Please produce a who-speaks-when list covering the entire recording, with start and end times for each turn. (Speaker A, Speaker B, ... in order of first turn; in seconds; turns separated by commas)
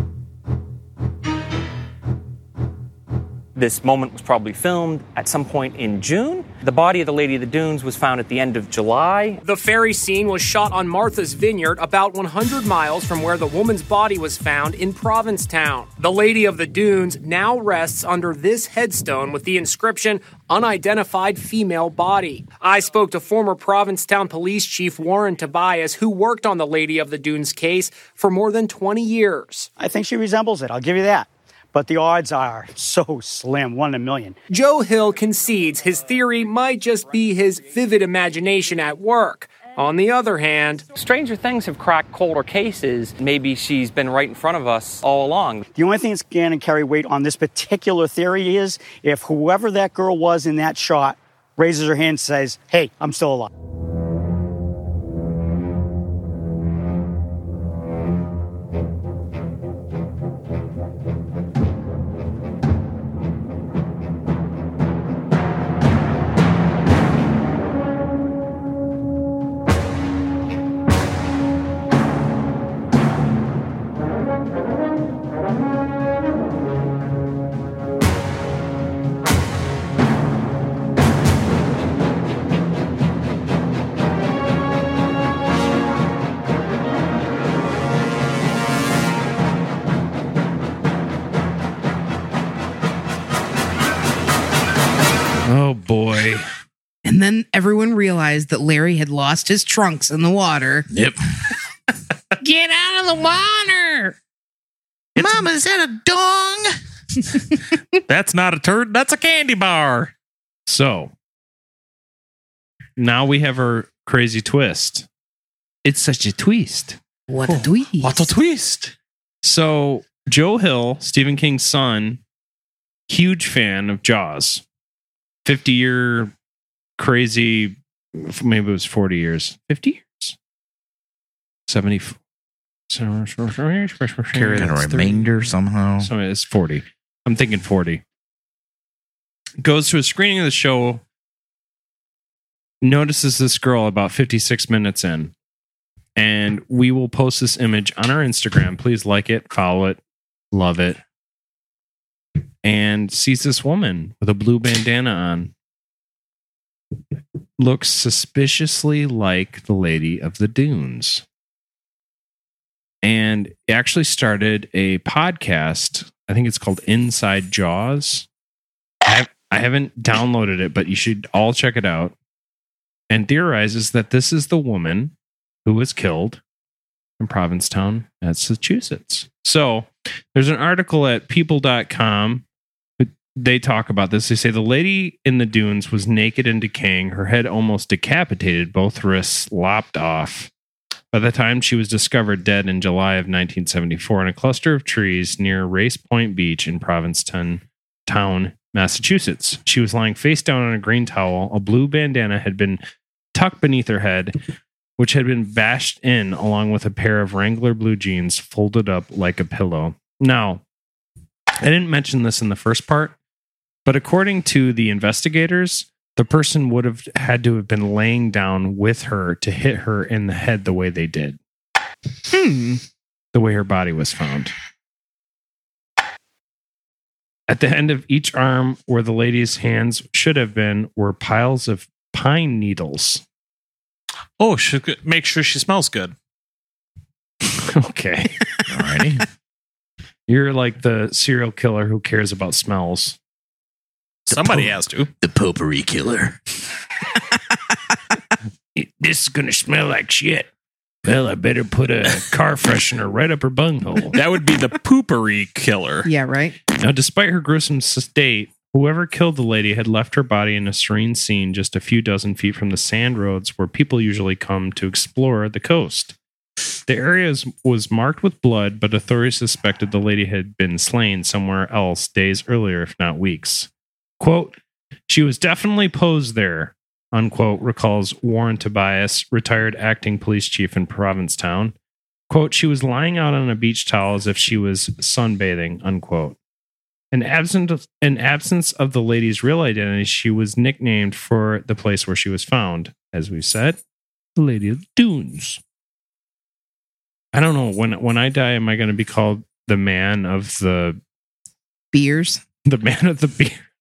Speaker A: 3.6-9.4, Speaker B: 9.4-29.7, Speaker C: 29.8-34.4, Speaker B: 34.5-40.9, Speaker A: 41.0-45.6, Speaker C: 45.7-53.5, Speaker D: 95.5-96.5, Speaker E: 97.0-100.9, Speaker F: 100.9-101.2, Speaker G: 102.4-104.1, Speaker F: 105.2-106.7, Speaker G: 108.1-110.1, Speaker D: 110.7-111.1, Speaker D: 113.0-115.1, Speaker D: 115.8-117.0, Speaker E: 117.3-118.3, Speaker G: 117.5-118.9, Speaker D: 119.4-122.2, Speaker D: 123.1-124.6, Speaker D: 125.5-126.3, Speaker D: 127.0-130.4, Speaker D: 131.7-132.2, Speaker D: 132.9-135.1, Speaker F: 134.3-136.1, Speaker D: 136.0-138.0, Speaker D: 139.6-141.0, Speaker D: 142.8-145.3, Speaker D: 146.2-150.0, Speaker D: 150.5-151.0, Speaker D: 152.6-155.5, Speaker D: 157.6-161.2, Speaker D: 163.0-168.3, Speaker D: 169.1-172.1, Speaker D: 173.1-175.1, Speaker D: 175.6-176.4, Speaker D: 177.2-182.4, Speaker D: 183.0-190.5, Speaker D: 191.1-202.8, Speaker D: 203.3-204.3, Speaker D: 205.0-210.6, Speaker D: 211.6-213.2, Speaker D: 213.9-221.4, Speaker E: 222.3-222.8, Speaker D: 223.3-224.5, Speaker D: 227.5-233.2, Speaker G: 234.4-236.1, Speaker D: 237.7-238.4, Speaker F: 238.7-239.2, Speaker D: 240.3-243.2, Speaker G: 244.3-245.1, Speaker F: 244.3-246.4, Speaker D: 248.8-250.5, Speaker D: 251.0-254.2, Speaker G: 254.1-256.1, Speaker E: 256.1-256.6, Speaker D: 256.8-266.1, Speaker D: 266.9-273.7, Speaker D: 274.2-274.6, Speaker D: 275.1-281.8, Speaker D: 282.3-286.4, Speaker D: 287.1-293.8, Speaker D: 294.4-295.6, Speaker D: 297.3-301.0, Speaker E: 301.9-302.4, Speaker D: 302.7-303.6